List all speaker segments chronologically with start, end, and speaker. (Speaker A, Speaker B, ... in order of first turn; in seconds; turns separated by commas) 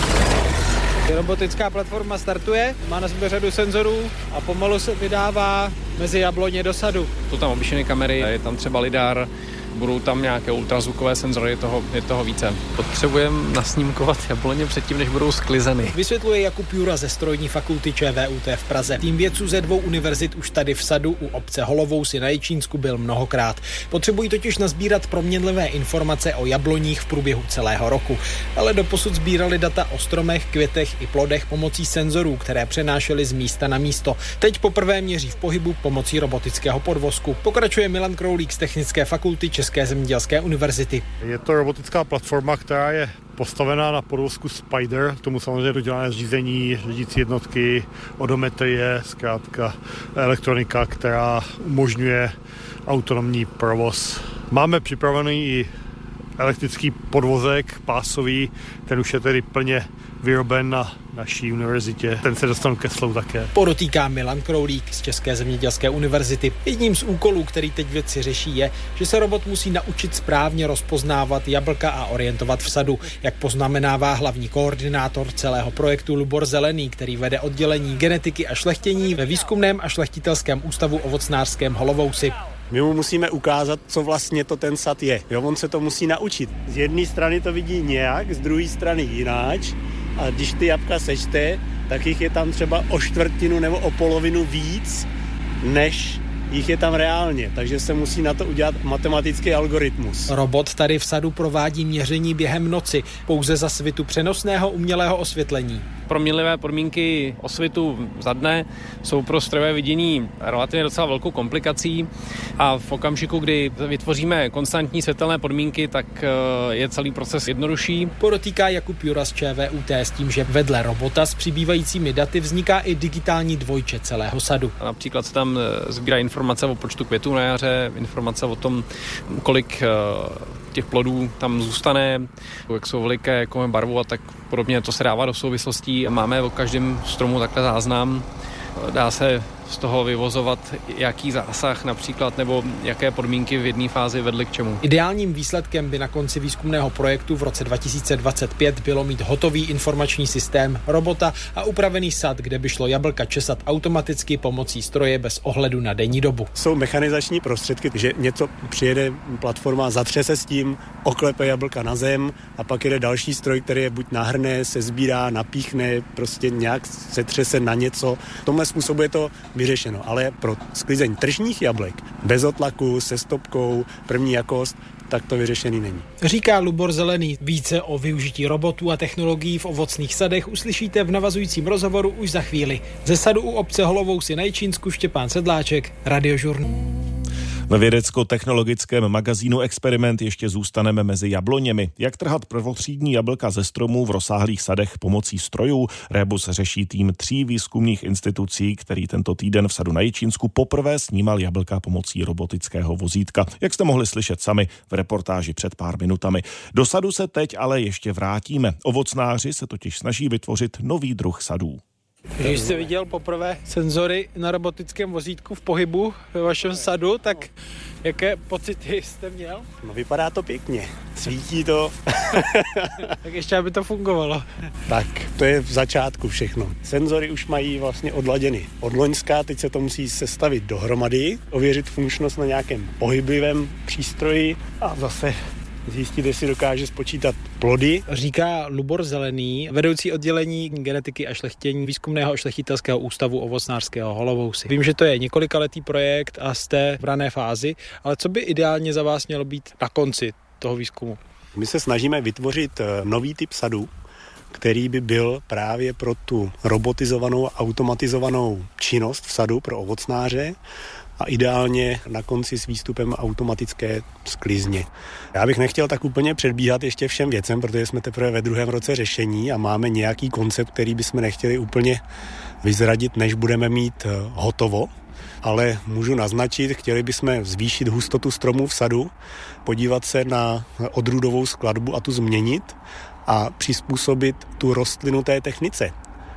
Speaker A: 1.1-7.1, Speaker B: 7.3-15.9, Speaker A: 15.9-41.0, Speaker C: 41.2-52.3, Speaker C: 52.9-55.7, Speaker C: 56.4-63.5, Speaker A: 63.5-82.4, Speaker D: 82.7-95.1, Speaker D: 95.6-100.3, Speaker A: 100.3-105.9, Speaker B: 106.1-118.1, Speaker A: 118.2-124.7, Speaker B: 124.8-138.3, Speaker B: 138.8-144.8, Speaker A: 144.8-156.5, Speaker D: 156.6-176.1, Speaker A: 176.2-186.7, Speaker E: 187.7-211.8, Speaker A: 212.4-217.5, Speaker D: 212.4-212.9, Speaker A: 218.0-219.7, Speaker D: 219.8-222.9, Speaker A: 223.2-224.5, Speaker D: 224.9-238.0, Speaker A: 238.1-251.2, Speaker D: 251.6-253.9, Speaker D: 254.5-260.6, Speaker D: 261.2-272.0, Speaker D: 272.6-274.9, Speaker D: 275.4-279.1, Speaker D: 279.6-285.9